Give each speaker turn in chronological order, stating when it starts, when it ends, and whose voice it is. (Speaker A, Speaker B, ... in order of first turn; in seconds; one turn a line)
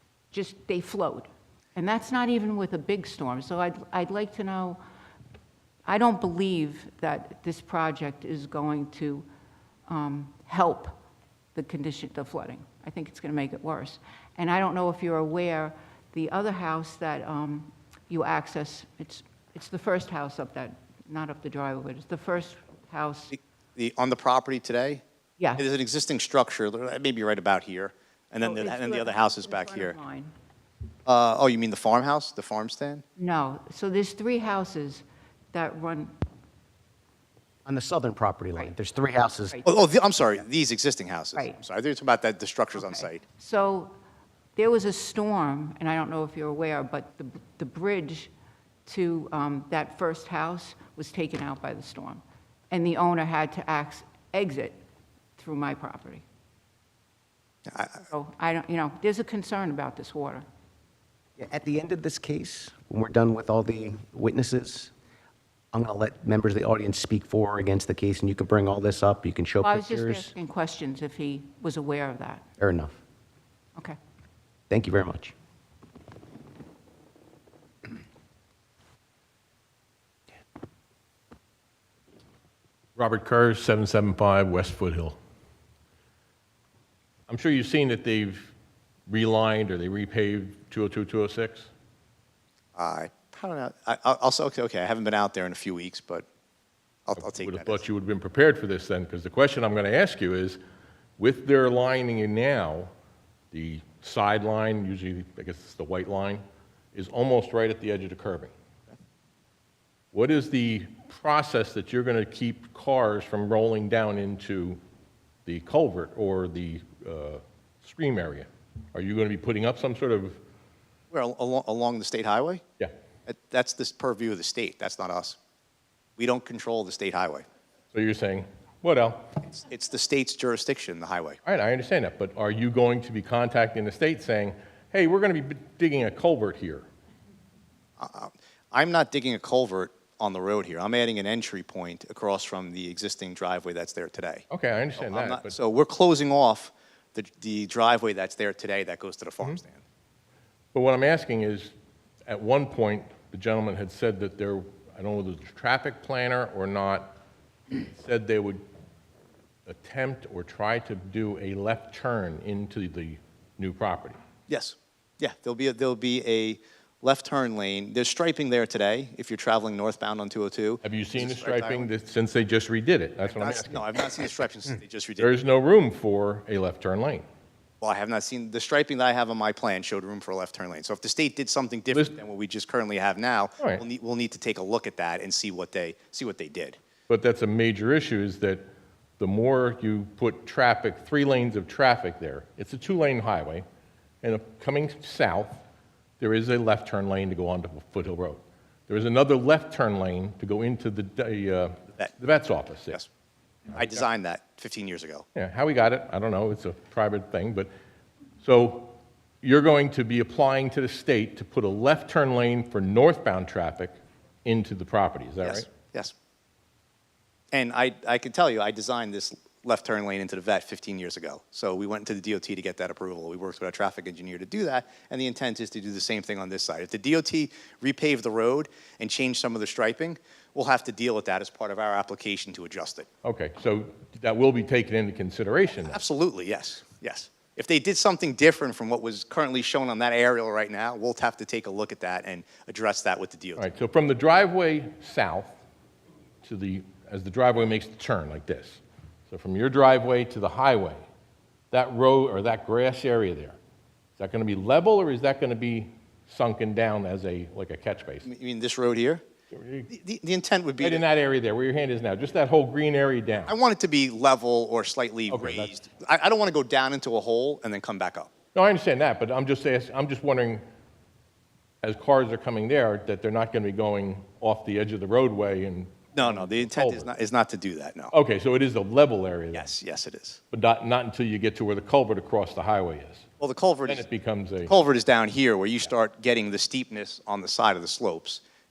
Speaker A: 0.3-4.8
Speaker A: 5.9-9.3
Speaker A: 9.9-11.0
Speaker A: 11.6-23.3
Speaker B: 23.3-25.0
Speaker B: 25.6-30.0
Speaker A: 28.4-30.3
Speaker B: 31.1-33.0
Speaker A: 33.2-36.2
Speaker C: 37.7-39.6
Speaker B: 39.6-43.2
Speaker A: 42.8-43.9
Speaker A: 44.6-48.3
Speaker A: 48.9-54.8
Speaker A: 55.4-56.2
Speaker B: 57.7-58.0
Speaker A: 58.0-60.5
Speaker C: 61.4-64.9
Speaker C: 65.7-70.3
Speaker A: 69.6-72.5
Speaker C: 72.6-73.0
Speaker C: 74.7-75.3
Speaker D: 83.0-85.2
Speaker D: 87.3-88.5
Speaker D: 89.1-91.7
Speaker B: 92.8-96.3
Speaker B: 97.1-97.8
Speaker D: 97.2-100.6
Speaker D: 101.2-102.9
Speaker D: 103.5-108.5
Speaker D: 110.1-114.8
Speaker D: 115.5-120.4
Speaker B: 121.1-122.6
Speaker B: 123.3-125.4
Speaker B: 126.2-127.5
Speaker D: 127.9-129.3
Speaker B: 129.5-131.4
Speaker D: 131.5-136.9
Speaker B: 138.0-144.4
Speaker D: 144.5-145.6
Speaker B: 145.0-149.8
Speaker D: 150.7-151.7
Speaker D: 152.3-157.2
Speaker D: 157.7-158.6
Speaker D: 159.7-164.2
Speaker B: 164.5-171.9
Speaker D: 170.8-173.9
Speaker B: 173.2-175.3
Speaker D: 175.2-177.2
Speaker B: 177.8-186.8
Speaker D: 181.9-182.2
Speaker D: 187.1-188.7
Speaker D: 189.2-193.7
Speaker D: 194.2-195.6
Speaker D: 196.2-203.0
Speaker B: 203.7-205.3
Speaker D: 203.8-204.0
Speaker D: 205.3-207.7
Speaker D: 208.4-215.7
Speaker B: 215.4-216.1
Speaker B: 217.5-233.1
Speaker D: 233.2-236.0
Speaker B: 235.8-243.7
Speaker D: 243.6-245.6
Speaker D: 246.4-251.0
Speaker D: 251.7-253.6
Speaker D: 254.2-258.3
Speaker B: 258.2-259.2
Speaker D: 259.5-259.9
Speaker B: 259.9-261.1
Speaker D: 260.8-263.5
Speaker B: 263.5-268.3
Speaker D: 265.3-265.7
Speaker D: 268.6-270.6
Speaker D: 271.8-277.1
Speaker B: 276.1-278.1
Speaker D: 278.1-279.7
Speaker B: 279.5-280.4
Speaker D: 280.5-283.2
Speaker B: 283.4-284.1
Speaker D: 283.9-284.7
Speaker B: 284.7-288.4